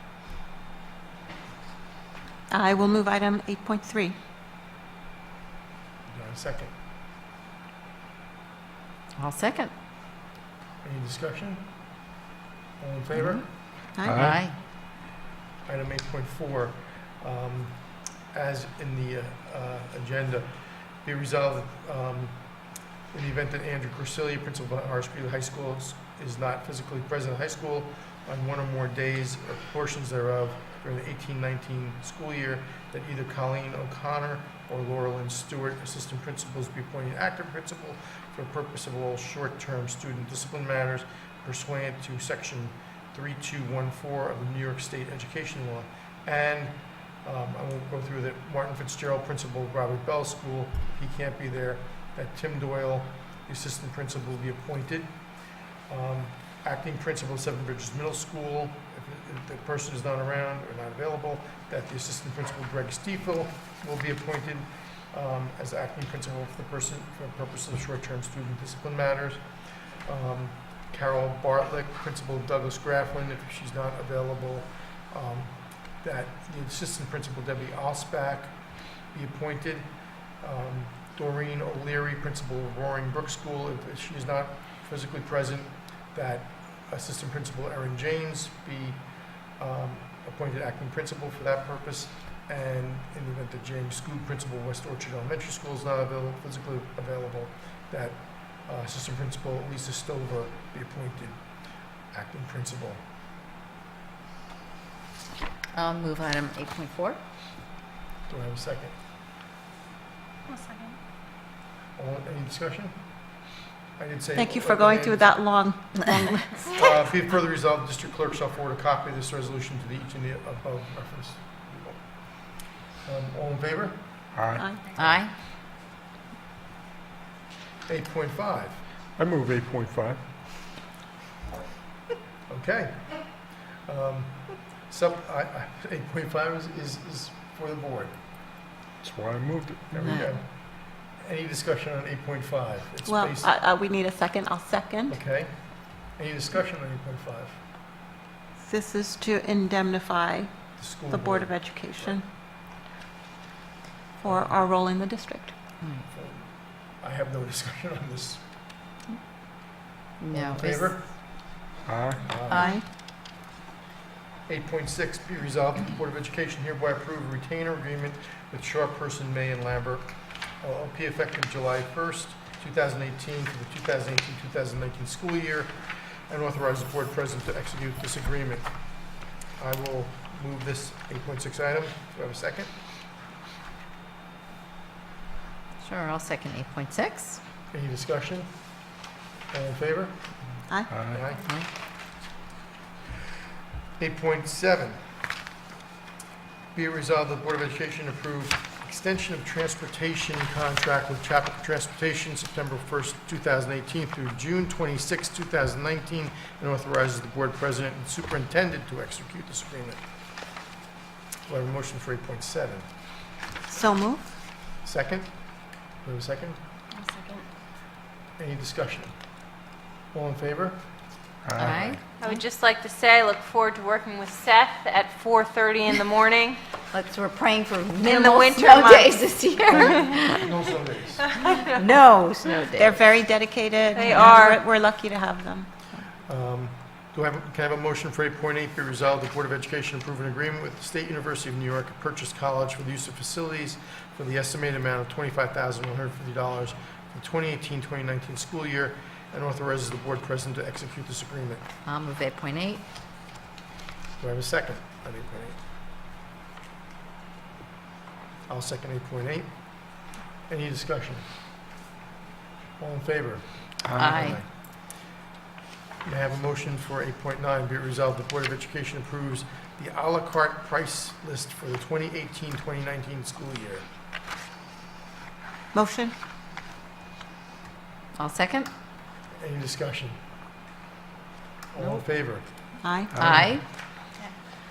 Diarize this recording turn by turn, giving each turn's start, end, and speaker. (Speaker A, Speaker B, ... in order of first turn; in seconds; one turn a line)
Speaker A: 2.5-4.1
Speaker B: 6.1-6.7
Speaker C: 9.2-9.7
Speaker B: 10.8-11.6
Speaker B: 12.8-13.4
Speaker D: 14.0-14.4
Speaker C: 14.1-14.6
Speaker B: 15.6-17.8
Speaker B: 18.3-20.5
Speaker B: 21.0-22.4
Speaker B: 23.1-55.1
Speaker B: 55.9-69.4
Speaker B: 70.0-78.5
Speaker B: 79.1-79.9
Speaker B: 80.4-89.0
Speaker B: 89.6-101.4
Speaker B: 102.1-103.0
Speaker C: 105.7-107.2
Speaker B: 108.3-108.9
Speaker E: 110.5-111.0
Speaker B: 112.0-113.0
Speaker B: 114.0-115.3
Speaker A: 114.3-116.9
Speaker B: 116.6-121.9
Speaker B: 123.0-124.0
Speaker D: 124.3-124.6
Speaker A: 124.6-124.9
Speaker C: 125.0-125.3
Speaker B: 127.9-128.8
Speaker D: 129.2-130.2
Speaker B: 132.5-133.2
Speaker B: 133.9-138.1
Speaker D: 139.0-140.3
Speaker B: 139.9-140.4
Speaker B: 141.2-143.5
Speaker A: 143.1-145.2
Speaker B: 145.1-145.5
Speaker B: 146.1-147.6
Speaker A: 148.6-150.5
Speaker B: 150.8-152.2
Speaker A: 151.1-152.2
Speaker A: 154.2-155.5
Speaker B: 154.2-154.6
Speaker B: 156.1-158.4
Speaker C: 160.2-160.9
Speaker B: 160.3-161.0
Speaker D: 161.8-162.3
Speaker B: 162.2-162.7
Speaker C: 162.5-162.8
Speaker A: 162.5-162.8
Speaker B: 164.5-175.7
Speaker B: 176.3-178.7
Speaker B: 179.6-182.7
Speaker C: 185.8-187.4
Speaker B: 187.7-188.5
Speaker B: 189.5-190.2
Speaker D: 190.9-191.2
Speaker B: 191.1-191.5
Speaker B: 194.0-195.0
Speaker B: 196.7-210.0
Speaker B: 211.5-212.9
Speaker A: 213.7-214.3
Speaker B: 214.8-215.3
Speaker B: 216.0-216.6
Speaker E: 216.9-217.4
Speaker B: 218.4-219.1
Speaker B: 220.1-220.8
Speaker D: 221.4-222.0
Speaker C: 221.6-222.4
Speaker E: 222.2-226.6
Speaker C: 226.9-230.5
Speaker E: 228.0-230.2
Speaker B: 230.3-231.3
Speaker E: 231.2-231.8
Speaker C: 231.7-233.0
Speaker A: 232.8-236.0
Speaker E: 233.9-234.6
Speaker B: 236.3-251.7
Speaker C: 251.8-252.8
Speaker B: 254.2-255.6
Speaker B: 258.5-259.5
Speaker B: 260.5-261.2
Speaker B: 262.8-264.5
Speaker D: 263.9-264.4
Speaker C: 264.0-264.4
Speaker B: 266.0-273.9
Speaker A: 275.7-276.1
Speaker C: 278.2-278.7
Speaker B: 279.4-280.2
Speaker B: 281.7-282.4
Speaker A: 282.8-283.1
Speaker D: 283.1-283.6
Speaker C: 283.2-283.6